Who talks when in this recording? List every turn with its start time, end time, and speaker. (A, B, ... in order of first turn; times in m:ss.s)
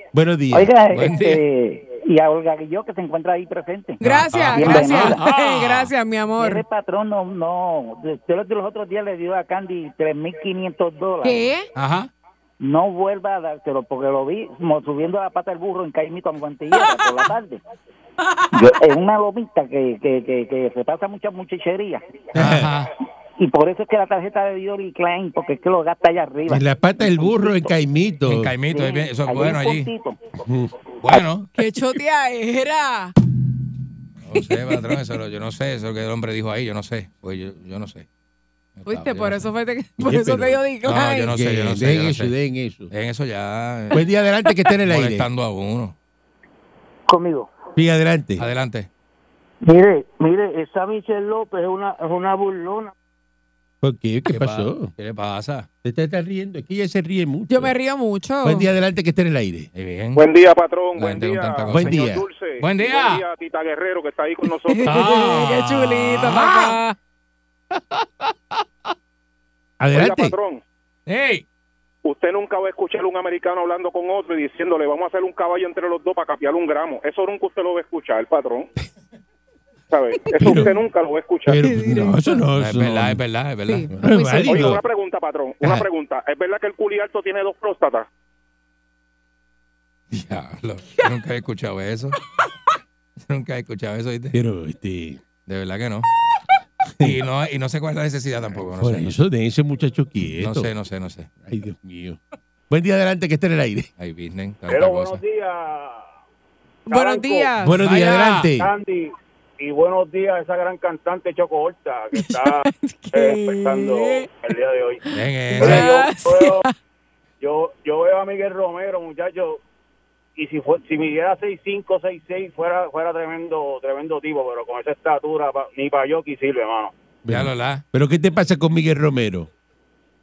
0:00.1-0:00.7 A
0:00.5-0:04.0 B
0:00.9-0:01.4 C
0:04.0-0:06.6 D
0:04.0-0:05.9 C
0:04.5-0:05.2 B
0:06.4-0:11.5 B
0:11.2-0:11.7 D
0:11.8-0:12.1 C
0:12.6-0:17.6 B
0:18.5-0:22.0 B
0:22.4-0:22.7 A
0:22.4-0:22.9 C
0:23.4-0:27.6 B
0:26.5-0:28.5 A
0:28.3-0:29.9 C
0:28.7-0:30.2 B
0:30.4-0:30.7 A
0:31.0-0:31.5 C
0:31.6-0:33.1 D
0:34.2-0:38.1 C
0:34.4-0:35.0 D
0:38.8-0:39.5 C
0:38.9-0:41.3 D
0:40.0-0:40.6 A
0:40.9-0:42.3 C
0:41.3-0:42.9 A
0:42.9-0:44.0 C
0:43.9-0:45.3 A
0:44.9-0:46.0 C
0:47.8-0:48.4 A
0:48.4-0:48.9 C
0:49.6-0:52.8 E
0:53.8-0:54.9 A
0:54.3-0:55.7 C
0:55.8-0:57.8 A
0:57.5-0:58.7 D
0:58.4-0:59.7 A
0:59.8-1:00.2 C
1:00.2-1:05.2 F
1:01.0-1:01.9 C
1:01.7-1:02.3 A
1:02.6-1:03.2 C
1:04.7-1:07.0 D
1:04.9-1:06.8 C
1:07.8-1:08.0 C
1:09.8-1:10.4 A
1:09.9-1:10.6 F
1:11.1-1:11.4 C
1:12.0-1:18.7 F
1:19.9-1:21.6 F
1:20.4-1:20.8 A
1:21.5-1:23.2 A
1:21.6-1:22.4 D
1:22.6-1:23.9 C
1:23.7-1:24.8 D
1:24.0-1:24.8 A
1:24.5-1:28.1 F
1:30.1-1:32.2 C
1:33.2-1:34.4 C
1:34.3-1:35.2 A
1:35.5-1:36.1 C
1:37.0-1:39.2 C
1:38.7-1:40.7 A
1:40.4-1:41.3 C
1:41.4-1:42.2 A
1:42.7-1:43.9 A
1:44.0-1:45.2 C
1:44.7-1:46.1 G
1:46.9-1:47.5 G
1:46.9-1:47.8 D
1:47.6-1:48.7 A
1:47.8-1:48.5 C
1:48.5-1:55.0 G
1:52.1-1:54.3 D
1:55.1-1:55.9 C
1:55.5-1:56.7 D
1:55.6-1:56.6 G
1:57.4-1:59.6 G
2:00.4-2:06.9 G
2:07.2-2:09.5 A
2:07.3-2:07.8 C